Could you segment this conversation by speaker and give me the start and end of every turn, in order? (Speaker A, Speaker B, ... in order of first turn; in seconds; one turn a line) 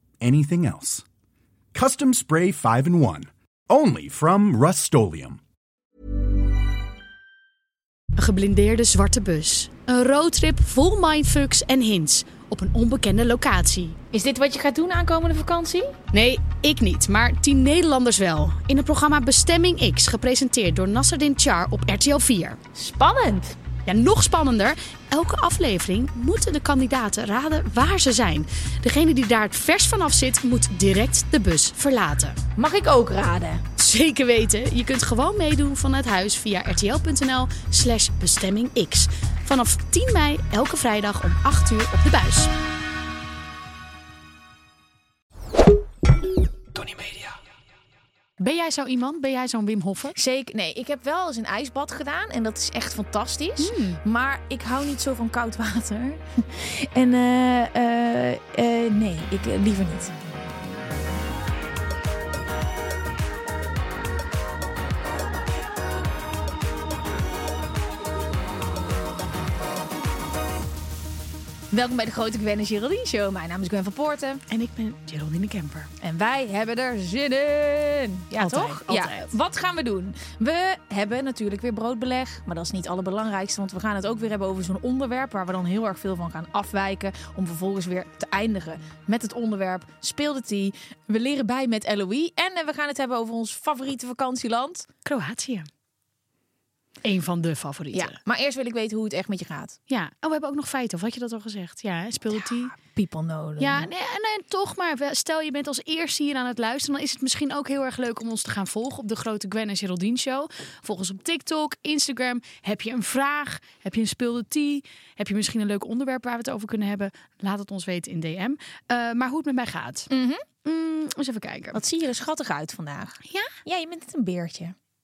Speaker A: 0.2-1.1
Speaker A: 1.7-5.4
Speaker B: 8.2-14.0
Speaker C: 14.1-16.0
Speaker B: 16.1-22.6
Speaker C: 22.7-23.5
Speaker B: 23.9-32.4
Speaker C: 32.6-33.6
Speaker B: 33.8-42.5
Speaker B: 48.4-50.2
Speaker C: 50.2-60.3
Speaker B: 53.6-54.0
Speaker C: 71.7-74.4
Speaker B: 74.5-75.9
Speaker C: 76.0-94.9
Speaker B: 78.4-79.3
Speaker B: 95.1-95.7
Speaker B: 97.0-98.2
Speaker C: 97.9-99.8
Speaker B: 99.9-102.8
Speaker C: 102.8-103.9
Speaker B: 103.6-120.1
Speaker C: 120.1-120.4
Speaker B: 120.6-121.8
Speaker C: 121.7-124.8